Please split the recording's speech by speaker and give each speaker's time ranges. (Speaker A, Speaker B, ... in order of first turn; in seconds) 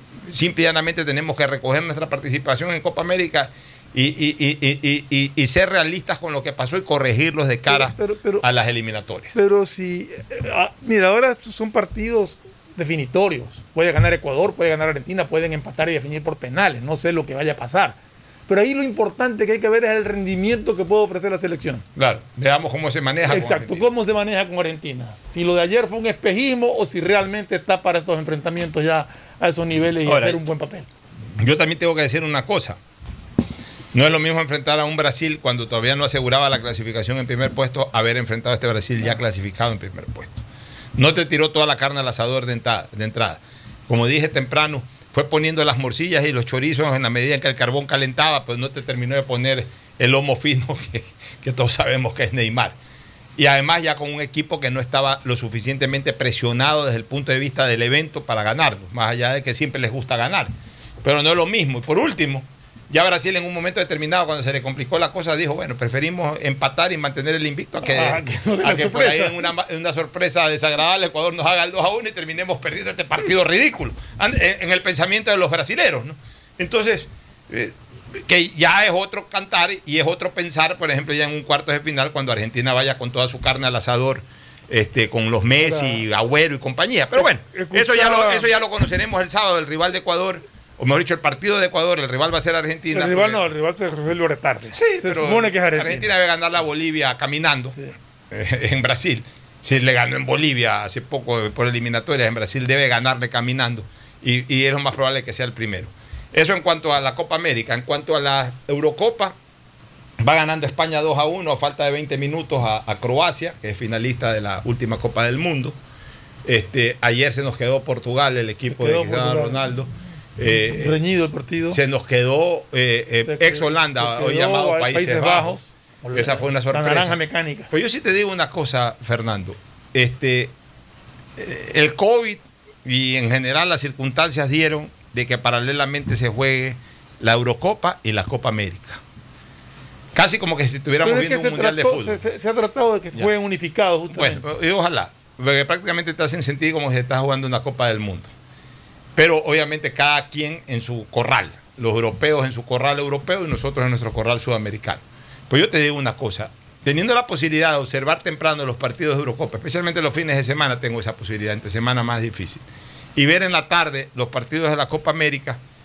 Speaker A: 0.3-9.3, 21.9-23.9, 30.0-30.4, 31.4-32.8, 33.9-40.4, 40.9-52.7, 53.4-93.4, 94.7-97.8, 98.3-109.3, 110.2-115.8, 116.4-121.0, 121.7-125.5, 126.1-127.2, 127.7-130.5, 131.4-139.0, 140.1-142.2, 144.1-148.3, 149.2-162.6, 163.2-165.6
Speaker B: 7.7-8.4, 9.3-18.0, 18.5-21.8, 23.2-30.9, 67.8-69.5, 85.6-86.0, 87.2-88.5, 92.9-96.1, 118.7-119.6, 120.5-121.8, 123.2-127.7, 141.0-144.4